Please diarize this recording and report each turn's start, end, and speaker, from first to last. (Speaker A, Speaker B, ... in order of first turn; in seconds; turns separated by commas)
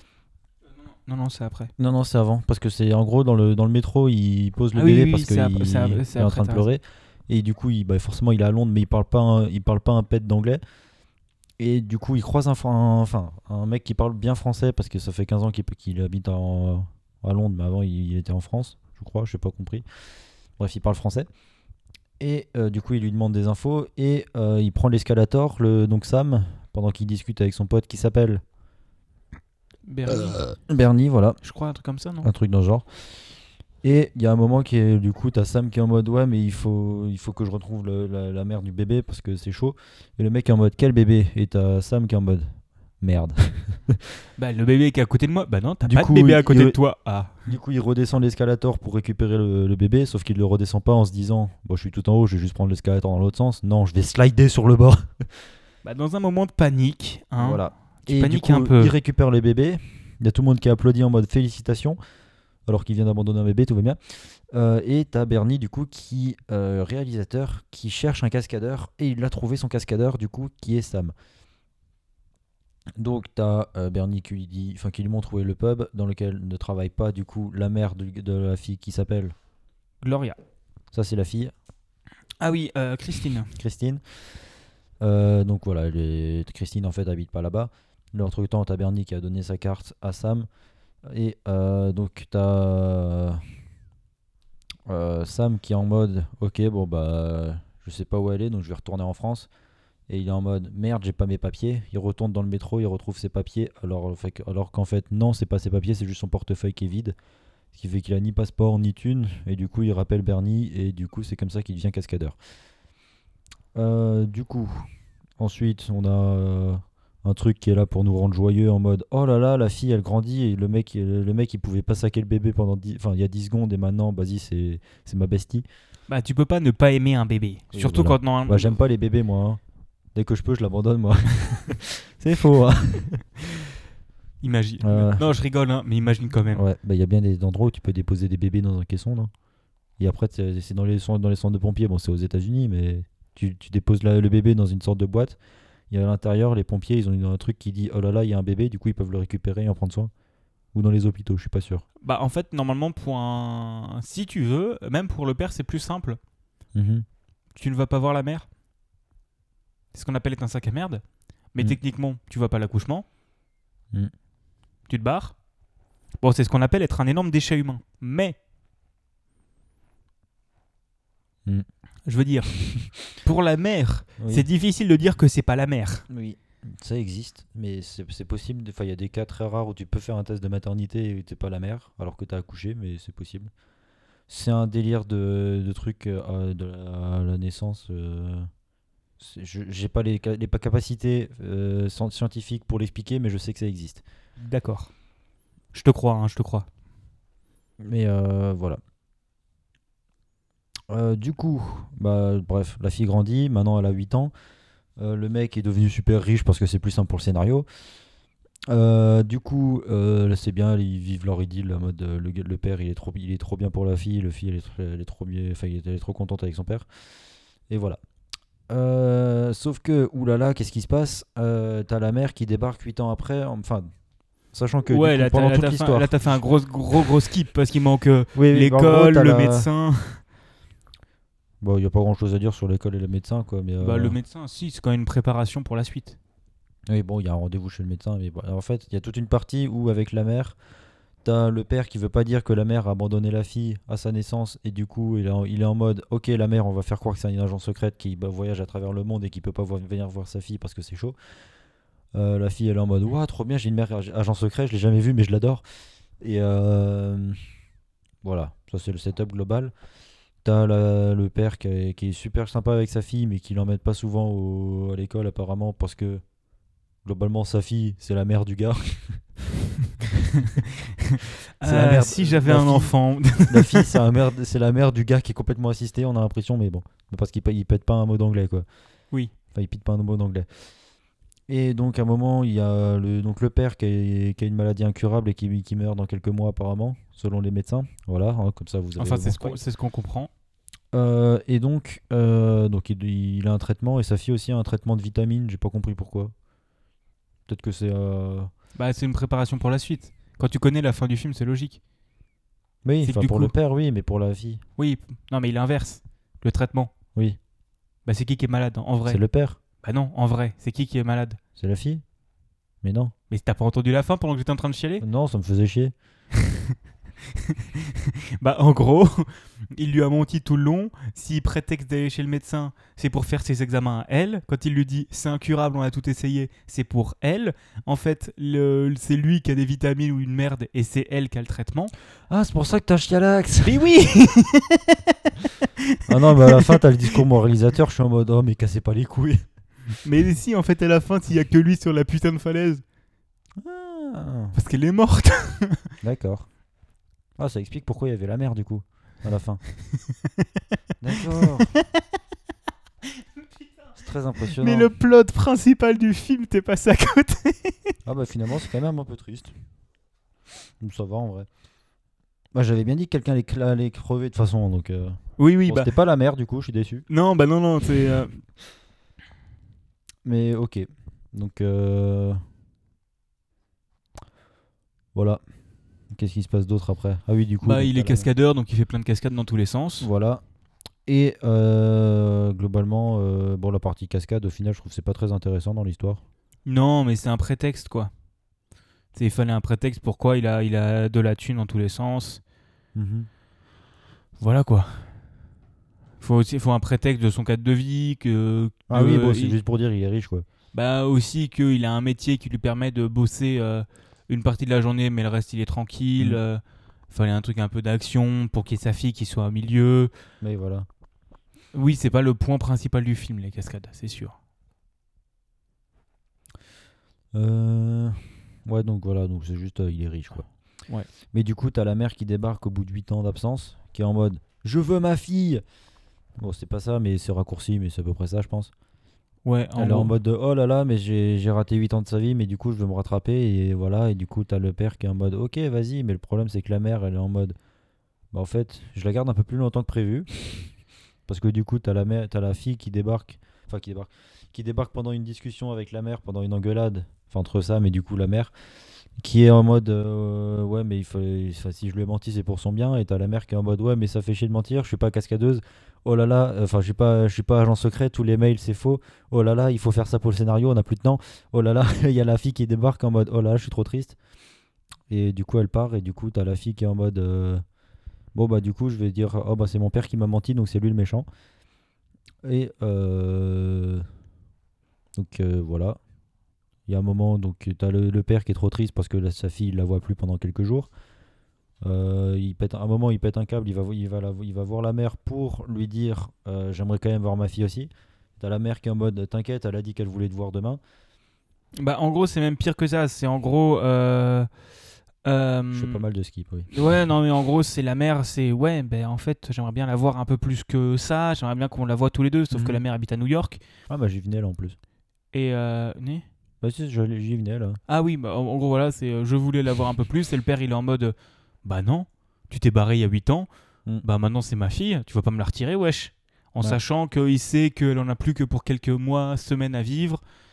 Speaker A: 1.1-1.7, Speaker B: 1.8-10.6, Speaker A: 4.8-6.7, Speaker B: 11.6-19.9, Speaker B: 20.6-21.3, Speaker B: 22.2-28.4, Speaker A: 29.9-30.5, Speaker B: 30.7-31.4, Speaker A: 31.4-32.3, Speaker B: 32.2-32.9, Speaker B: 33.8-44.0, Speaker A: 44.4-47.4, Speaker B: 45.8-46.8, Speaker B: 47.5-55.3, Speaker A: 55.8-58.9, Speaker B: 57.4-62.0, Speaker B: 62.7-71.1, Speaker B: 73.0-79.3, Speaker A: 80.0-80.4, Speaker B: 80.9-81.5, Speaker A: 82.4-83.5, Speaker B: 83.6-84.0, Speaker B: 85.0-90.5, Speaker B: 91.1-93.4, Speaker B: 94.9-99.5, Speaker B: 100.1-107.2, Speaker B: 107.7-112.4, Speaker B: 113.8-114.9, Speaker B: 115.4-125.7, Speaker A: 126.1-128.8, Speaker B: 127.7-129.6, Speaker B: 130.1-133.2, Speaker A: 134.4-136.6, Speaker B: 134.8-135.2, Speaker B: 136.5-139.3, Speaker B: 140.0-145.4, Speaker B: 145.9-150.1, Speaker B: 150.7-151.8, Speaker A: 152.0-156.2, Speaker B: 156.7-157.1, Speaker A: 157.6-158.5, Speaker A: 159.9-161.0, Speaker A: 161.5-163.1, Speaker A: 164.9-165.4, Speaker A: 166.2-168.4, Speaker A: 172.1-172.6, Speaker A: 173.2-176.1, Speaker B: 174.2-174.5, Speaker B: 176.1-183.5, Speaker B: 184.3-188.5, Speaker B: 189.2-194.0, Speaker A: 194.4-194.9, Speaker A: 195.7-196.7, Speaker B: 197.8-198.8, Speaker B: 200.9-204.3, Speaker B: 205.0-207.7, Speaker B: 208.7-216.9, Speaker B: 217.7-218.0, Speaker B: 218.7-223.9, Speaker B: 224.5-226.1, Speaker A: 224.9-230.2, Speaker B: 228.3-229.7, Speaker B: 231.6-234.2, Speaker A: 233.8-236.2, Speaker B: 236.9-240.6, Speaker B: 241.2-251.2, Speaker B: 252.1-255.6, Speaker B: 256.2-257.4, Speaker B: 258.2-259.7, Speaker B: 260.4-266.2, Speaker B: 267.0-269.4, Speaker A: 271.6-273.9, Speaker B: 271.6-278.7, Speaker B: 279.5-280.5, Speaker B: 281.5-289.6, Speaker A: 289.0-290.3, Speaker B: 290.9-296.3, Speaker B: 297.5-298.5, Speaker A: 298.8-301.8, Speaker B: 302.8-304.6, Speaker A: 303.0-303.5, Speaker A: 304.8-306.9, Speaker A: 308.1-309.2, Speaker B: 309.1-309.6, Speaker A: 309.8-311.4, Speaker B: 311.6-312.0, Speaker B: 312.8-313.1, Speaker A: 313.3-315.1, Speaker B: 315.0-315.9, Speaker A: 317.5-331.9, Speaker B: 332.3-333.8, Speaker A: 333.6-335.1, Speaker A: 335.9-336.8, Speaker B: 336.1-339.4, Speaker A: 340.0-342.8, Speaker B: 343.6-344.6, Speaker A: 344.5-345.8, Speaker B: 346.0-346.5, Speaker B: 347.4-349.6, Speaker B: 351.0-351.7, Speaker B: 354.0-354.9, Speaker A: 354.6-357.9, Speaker B: 358.1-359.5, Speaker B: 360.8-361.5, Speaker B: 362.5-367.1, Speaker A: 365.4-365.9, Speaker A: 367.1-368.4, Speaker B: 370.2-372.4, Speaker B: 375.1-375.4, Speaker B: 376.1-378.3, Speaker A: 377.6-380.1, Speaker B: 380.0-380.4, Speaker B: 381.1-386.2, Speaker A: 386.6-388.1, Speaker A: 389.1-392.4, Speaker B: 392.9-393.3, Speaker A: 394.4-395.1, Speaker A: 396.2-399.6, Speaker B: 398.9-400.5, Speaker A: 400.7-410.1, Speaker B: 410.4-410.9, Speaker A: 411.7-414.4, Speaker B: 417.3-420.5, Speaker B: 421.3-425.6, Speaker B: 426.4-428.7, Speaker A: 429.4-430.1, Speaker B: 429.8-437.6, Speaker B: 438.3-440.7, Speaker B: 441.3-448.5, Speaker B: 449.2-464.2, Speaker B: 465.1-467.6, Speaker B: 468.3-471.3, Speaker B: 472.4-474.1, Speaker B: 475.1-476.0, Speaker B: 476.9-480.9, Speaker B: 481.8-490.8, Speaker A: 491.8-494.5, Speaker A: 495.2-496.0, Speaker B: 495.7-496.7, Speaker A: 496.7-503.6, Speaker B: 502.5-502.8, Speaker B: 503.9-504.8, Speaker A: 505.3-506.2, Speaker B: 506.6-507.8, Speaker A: 507.9-513.5, Speaker A: 514.0-520.2